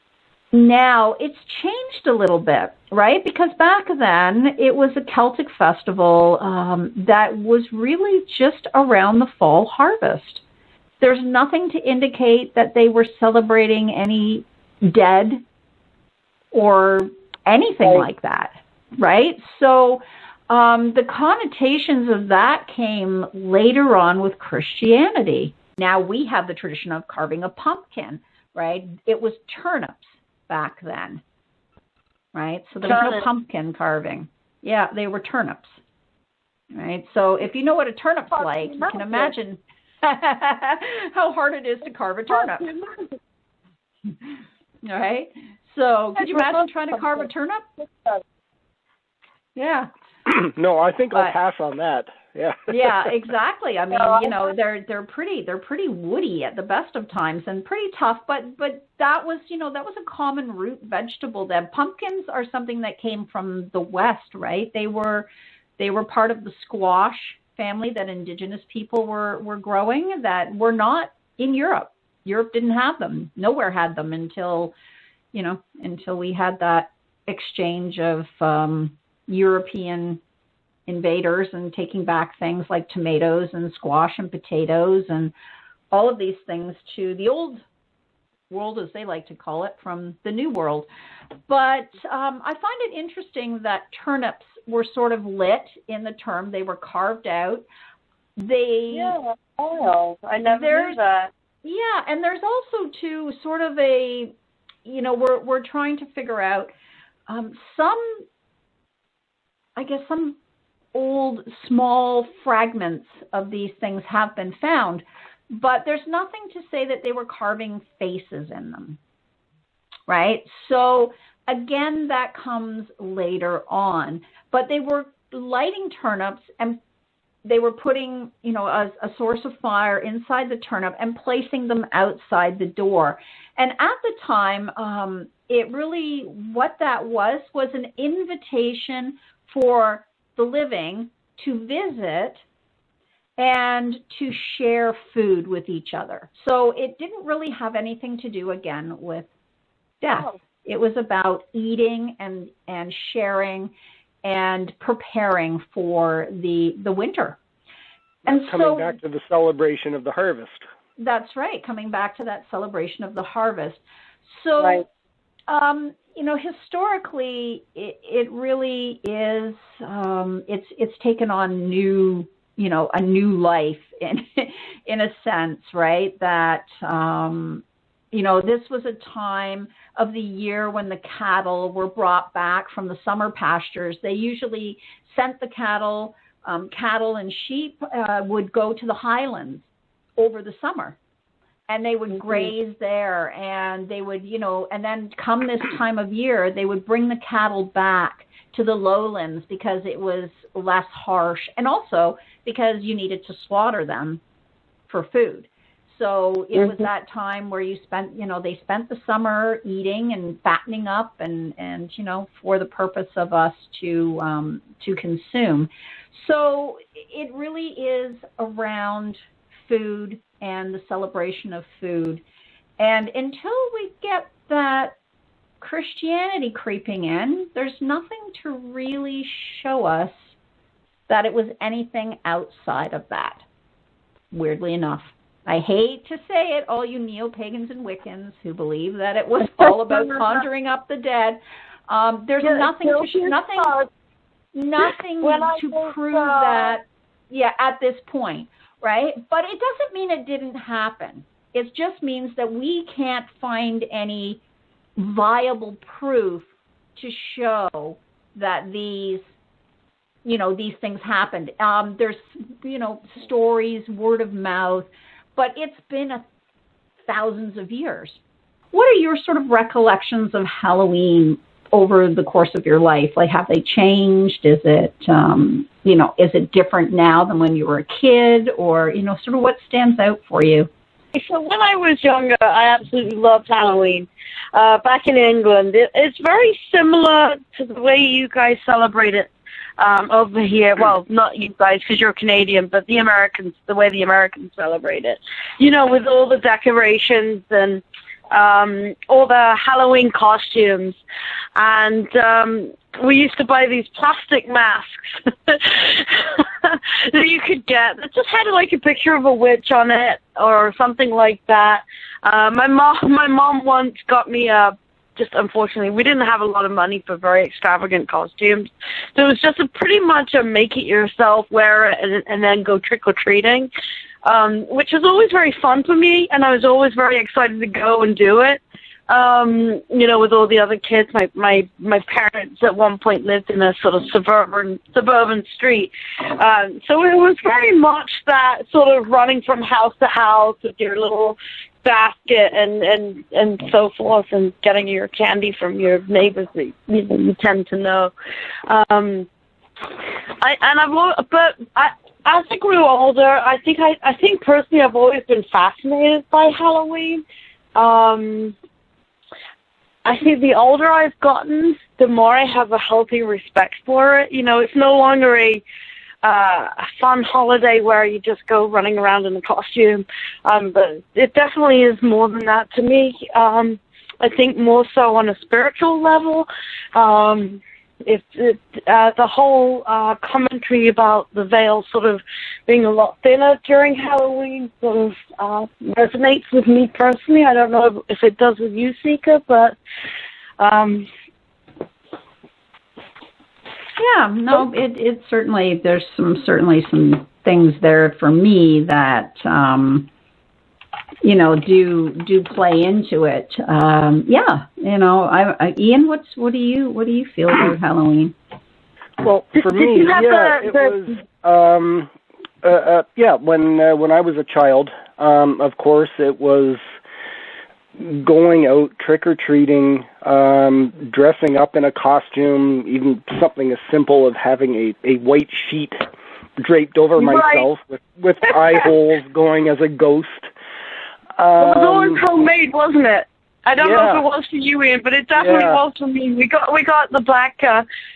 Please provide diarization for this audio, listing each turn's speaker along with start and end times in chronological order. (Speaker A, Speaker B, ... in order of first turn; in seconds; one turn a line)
Speaker A: 0.5-10.4
Speaker A: 11.0-15.4
Speaker A: 16.5-31.2
Speaker A: 32.3-35.8
Speaker B: 32.8-33.3
Speaker A: 36.8-42.7
Speaker B: 38.4-39.3
Speaker B: 42.3-43.1
Speaker A: 44.8-47.7
Speaker B: 46.2-46.6
Speaker B: 47.9-48.2
Speaker A: 49.6-49.9
Speaker C: 50.3-52.9
Speaker A: 52.7-65.3
Speaker B: 53.9-54.4
Speaker A: 65.8-74.8
Speaker A: 75.3-80.2
Speaker A: 80.9-85.3
Speaker A: 85.9-87.6
Speaker A: 88.5-90.9
Speaker A: 91.5-97.7
Speaker A: 98.4-99.2
Speaker B: 98.9-101.3
Speaker A: 100.5-101.0
Speaker A: 101.6-104.3
Speaker A: 104.8-106.7
Speaker A: 107.3-108.2
Speaker A: 109.8-110.4
Speaker A: 110.9-119.0
Speaker A: 120.1-126.8
Speaker A: 127.5-142.4
Speaker A: 143.4-149.3
Speaker A: 150.0-153.7
Speaker A: 154.2-157.4
Speaker A: 158.3-158.9
Speaker C: 158.3-160.7
Speaker A: 161.0-164.8
Speaker A: 165.5-189.7
Speaker A: 190.2-191.0
Speaker A: 191.7-204.2
Speaker A: 204.9-222.2
Speaker A: 222.8-224.9
Speaker A: 225.6-230.3
Speaker A: 231.1-233.4
Speaker A: 234.3-243.8
Speaker B: 239.6-240.3
Speaker B: 242.4-243.9
Speaker A: 244.6-254.4
Speaker B: 245.2-246.8
Speaker A: 255.0-259.2
Speaker A: 260.2-266.2
Speaker A: 267.1-268.2
Speaker A: 268.7-280.7
Speaker B: 281.1-301.0
Speaker B: 301.6-323.7
Speaker B: 324.2-348.1
Speaker B: 348.7-349.3
Speaker B: 350.4-357.2
Speaker B: 357.8-358.6
Speaker B: 360.1-365.6
Speaker B: 366.2-389.8
Speaker B: 390.6-391.1
Speaker A: 394.0-400.1
Speaker A: 401.2-408.4
Speaker C: 409.2-412.1
Speaker B: 409.6-411.0
Speaker C: 412.6-416.8
Speaker C: 418.0-430.5
Speaker B: 427.2-427.7
Speaker B: 428.5-428.8
Speaker C: 431.4-432.2
Speaker B: 431.6-437.9
Speaker C: 433.8-434.3
Speaker C: 435.4-435.8